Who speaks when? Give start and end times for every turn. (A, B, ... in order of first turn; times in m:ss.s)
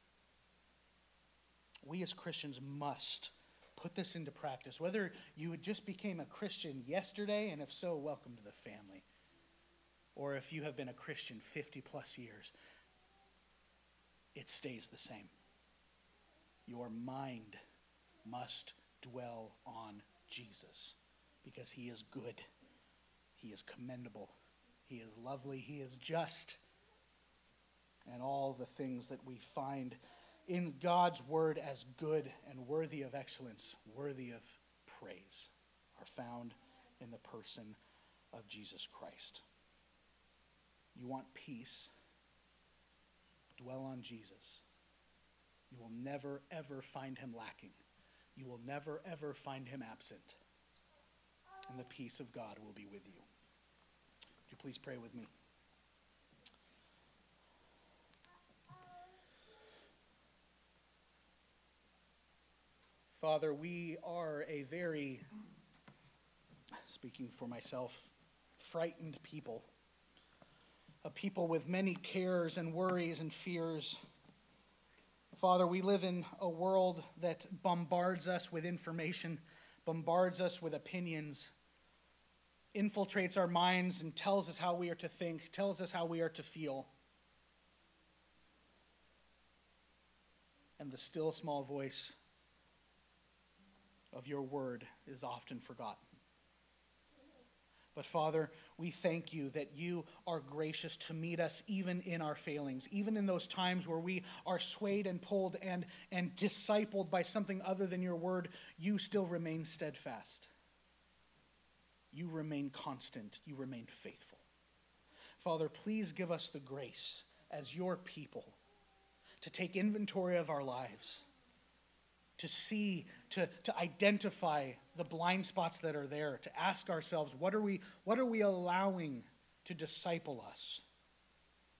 0:01.8-0:09.1 A
0:10.1-0:12.5 A
0:14.3-0:15.3 A
0:16.7-0:17.6 A
0:18.2-0:22.4 A
0:23.3-0:24.3 A
0:24.8-0:26.6 A
0:28.0-0:37.8 A
0:38.3-0:39.4 A
0:40.9-0:41.9 A
0:43.6-0:44.6 A
0:45.7-0:47.8 A
0:48.4-0:50.4 A
0:51.7-0:53.2 A
0:54.5-0:55.3 A
1:03.1-1:05.2 A
1:06.8-1:09.6 A
1:11.0-1:14.0 A
1:15.3-1:21.5 A
1:22.7-1:26.9 A
1:30.8-1:32.2 A
1:34.1-1:36.0 A
1:37.9-1:50.5 A
1:52.1-1:54.4 A
1:55.4-1:58.6 A
1:59.4-2:01.2 A
2:02.4-2:10.8 A